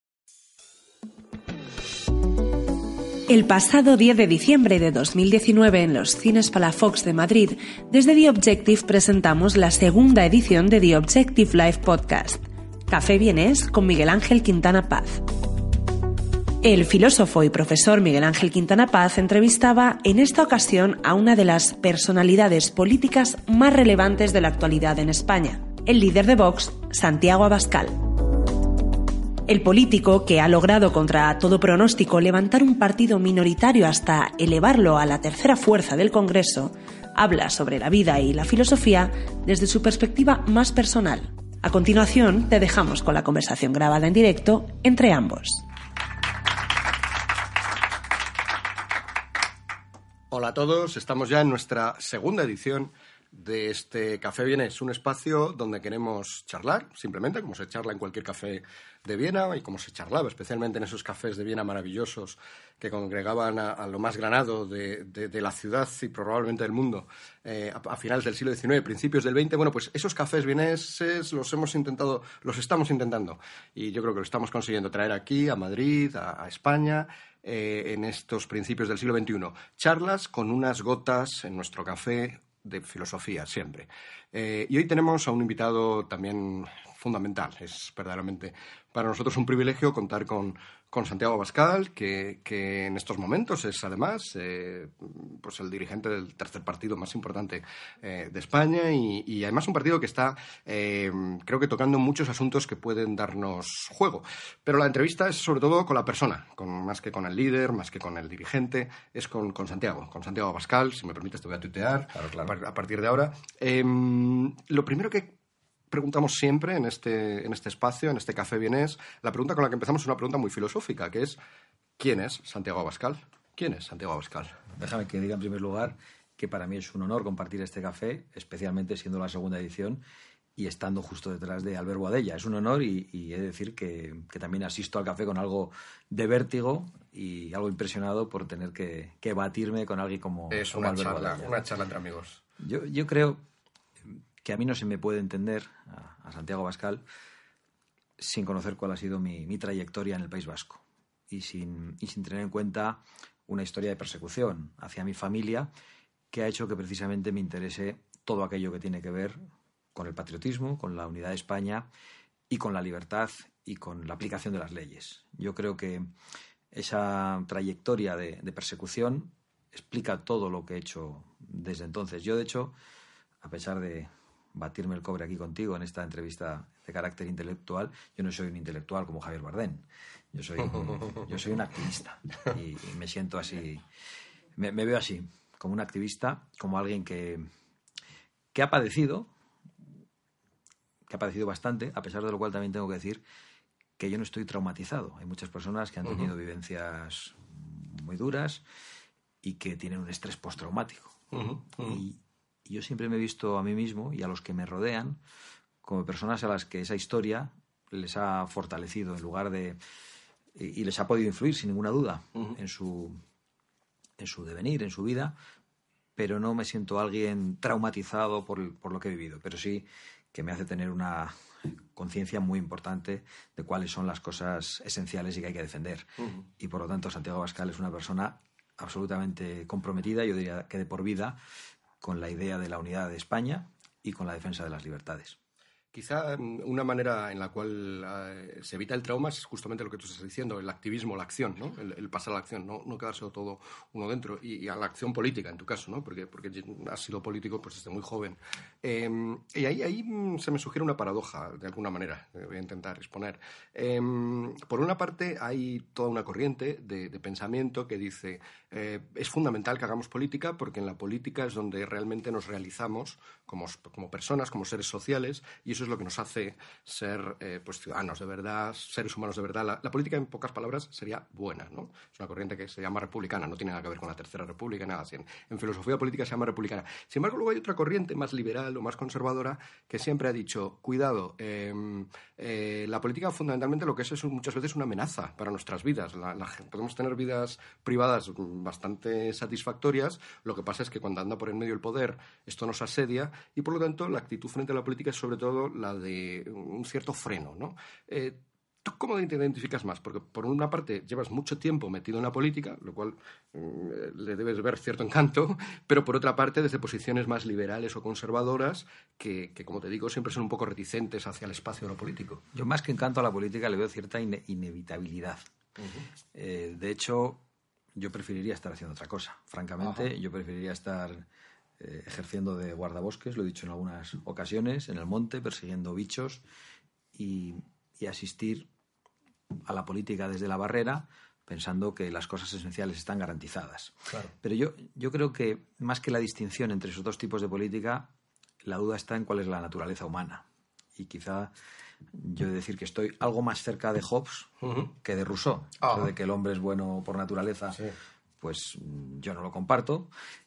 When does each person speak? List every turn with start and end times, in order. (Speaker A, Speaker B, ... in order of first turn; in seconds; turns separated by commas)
Speaker A: 3.3-15.2, Speaker A: 16.6-28.1, Speaker A: 29.5-45.6, Speaker B: 50.3-115.3, Speaker C: 112.2-112.5, Speaker B: 115.9-121.4, Speaker B: 122.0-124.6, Speaker C: 124.7-130.0, Speaker C: 130.6-141.6, Speaker B: 140.5-142.4, Speaker C: 142.6-143.4, Speaker C: 144.1-147.0, Speaker C: 148.2-155.7, Speaker C: 156.3-159.4, Speaker C: 159.9-161.9, Speaker C: 162.5-166.1, Speaker C: 166.7-172.8, Speaker C: 173.4-183.8, Speaker C: 184.6-187.5, Speaker C: 188.5-189.3, Speaker C: 191.1-193.2, Speaker C: 194.0-198.6, Speaker C: 199.4-201.2, Speaker B: 201.3-202.0, Speaker C: 201.8-205.2, Speaker C: 205.8-209.8, Speaker C: 210.6-213.2, Speaker C: 214.2-215.3, Speaker C: 216.2-221.3, Speaker C: 221.9-226.1, Speaker C: 226.6-231.4, Speaker C: 232.0-235.4, Speaker B: 235.9-312.4, Speaker C: 312.5-315.4, Speaker B: 315.8-316.1, Speaker C: 316.3-317.4, Speaker C: 317.9-321.3, Speaker B: 319.8-320.1, Speaker C: 321.8-326.4, Speaker C: 327.1-328.7, Speaker C: 329.7-338.1, Speaker C: 338.6-340.4, Speaker C: 341.0-341.5, Speaker C: 342.1-344.5, Speaker B: 344.6-344.9, Speaker C: 345.0-347.8, Speaker B: 345.8-346.1, Speaker C: 348.4-350.1